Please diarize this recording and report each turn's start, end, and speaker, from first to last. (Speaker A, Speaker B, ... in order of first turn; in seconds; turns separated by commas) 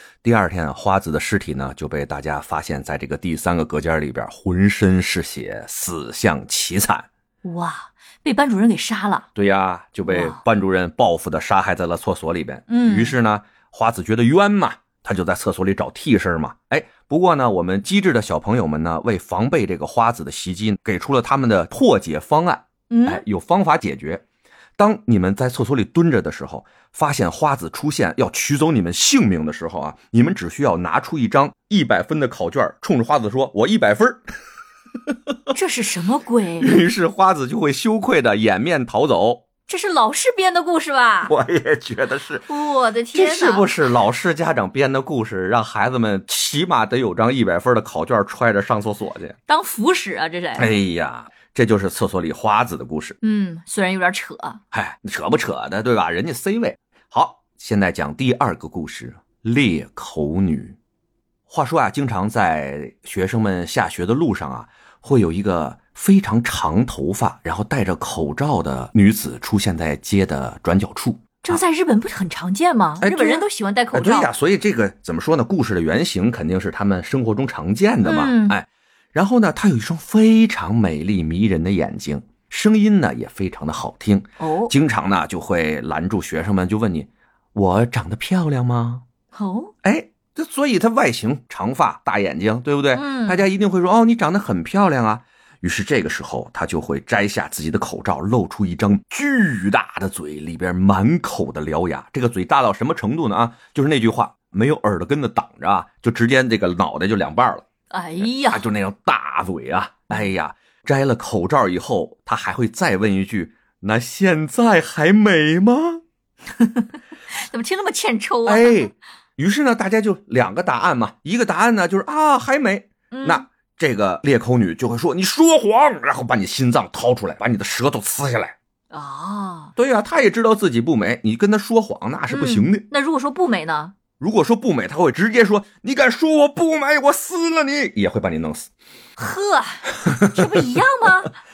Speaker A: 0.2-7.1, Speaker B: 7.4-9.3, Speaker A: 9.3-24.2, Speaker B: 10.1-10.4, Speaker B: 12.7-13.2, Speaker B: 22.9-23.2, Speaker A: 24.8-34.2, Speaker B: 35.5-36.8, Speaker A: 36.6-39.4, Speaker B: 39.7-41.3, Speaker A: 41.2-42.5, Speaker B: 42.5-43.7, Speaker A: 43.1-49.4, Speaker B: 49.5-50.7, Speaker A: 50.5-53.1, Speaker B: 53.2-54.6, Speaker A: 54.7-60.8, Speaker A: 61.5-71.6, Speaker B: 71.4-74.3, Speaker A: 73.0-89.0, Speaker B: 78.0-78.6, Speaker B: 84.4-84.7, Speaker B: 89.3-89.7, Speaker A: 89.8-107.6, Speaker B: 92.9-93.5, Speaker B: 107.9-108.7, Speaker A: 108.2-116.0, Speaker B: 116.6-118.9, Speaker A: 118.4-128.5, Speaker B: 123.1-123.5, Speaker B: 128.9-129.7, Speaker A: 129.8-132.8, Speaker B: 132.3-133.9, Speaker A: 134.2-138.7, Speaker B: 139.2-141.3, Speaker A: 140.0-140.6